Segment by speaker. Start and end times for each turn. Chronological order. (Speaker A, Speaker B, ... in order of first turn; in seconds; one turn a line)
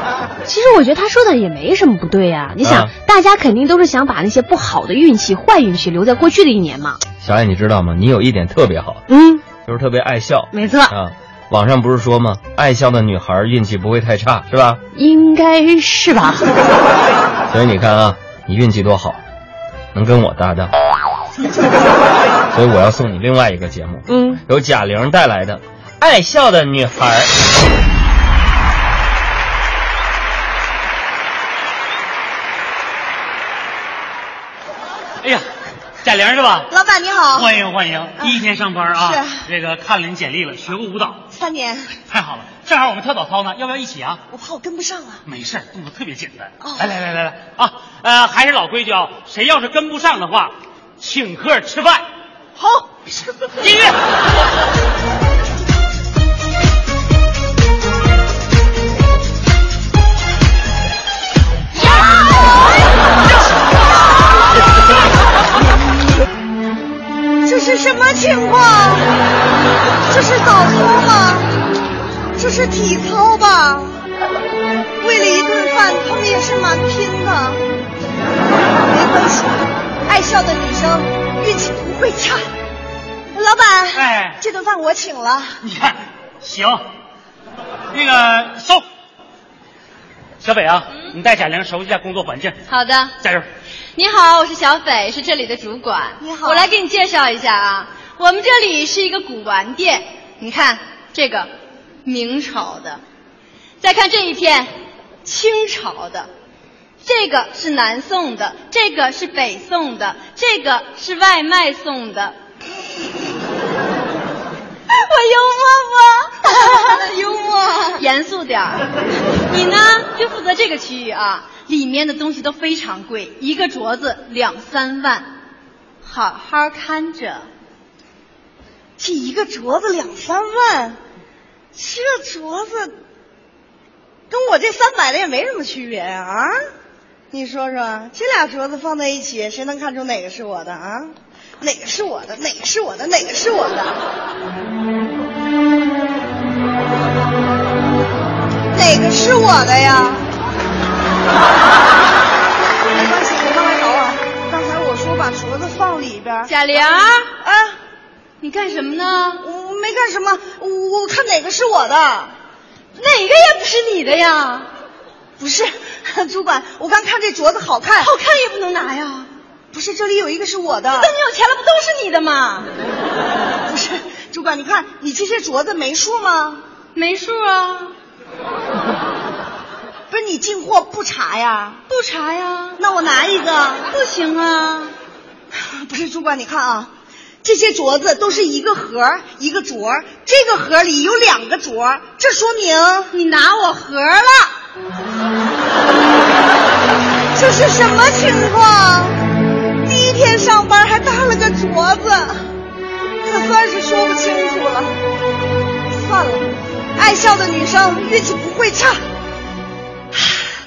Speaker A: 0.4-7.0
Speaker B: 2.6-2.9
Speaker B: 7.2-9.0
Speaker A: 9.1-9.4
Speaker B: 9.5-14.8
Speaker A: 10.5-10.9
Speaker A: 14.9-16.4
Speaker B: 17.5-19.2
Speaker B: 19.9-20.7
Speaker B: 22.5-27.3
Speaker A: 24.1-24.4
Speaker C: 36.0-36.7
Speaker D: 36.7-37.5
Speaker C: 37.3-41.2
Speaker D: 38.9-39.3
Speaker D: 41.3-41.9
Speaker C: 42.1-44.2
Speaker D: 44.3-45.2
Speaker C: 45.2-52.0
Speaker D: 52.6-52.9
Speaker C: 53.6-53.9
Speaker D: 61.8-62.4
Speaker D: 67.4-69.0
Speaker D: 70.1-71.5
Speaker D: 72.4-73.9
Speaker D: 75.0-77.6
Speaker D: 78.9-82.4
Speaker D: 83.3-85.5
Speaker C: 83.9-84.4
Speaker C: 85.6-86.8
Speaker C: 87.9-88.8
Speaker C: 90.4-92.6
Speaker E: 92.7-93.1
Speaker E: 94.0-101.5
Speaker D: 96.2-96.7
Speaker E: 102.0-103.0
Speaker E: 103.8-104.7
Speaker E: 105.2-106.3
Speaker E: 107.0-112.3
Speaker E: 115.1-117.1
Speaker D: 116.4-118.0
Speaker E: 117.9-118.8
Speaker E: 119.5-125.3
Speaker E: 126.0-127.5
Speaker D: 129.0-131.0
Speaker D: 131.7-132.9
Speaker D: 134.3-136.5
Speaker D: 137.3-144.0
Speaker D: 148.7-150.2
Speaker D: 152.9-157.8
Speaker E: 156.5-157.3
Speaker E: 158.4-159.4
Speaker D: 159.4-162.3
Speaker E: 163.0-164.7
Speaker D: 165.4-168.1
Speaker E: 168.0-169.3
Speaker D: 169.7-171.1
Speaker E: 170.9-172.7
Speaker D: 173.7-176.6
Speaker E: 176.9-177.9
Speaker D: 180.1-181.9
Speaker E: 181.9-182.8
Speaker D: 182.8-183.9
Speaker E: 183.9-184.9
Speaker D: 185.5-186.9
Speaker D: 187.4-193.1
Speaker E: 193.1-194.5
Speaker D: 197.3-199.2
Speaker D: 199.8-202.5
Speaker D: 203.2-204.9
Speaker D: 205.9-209.0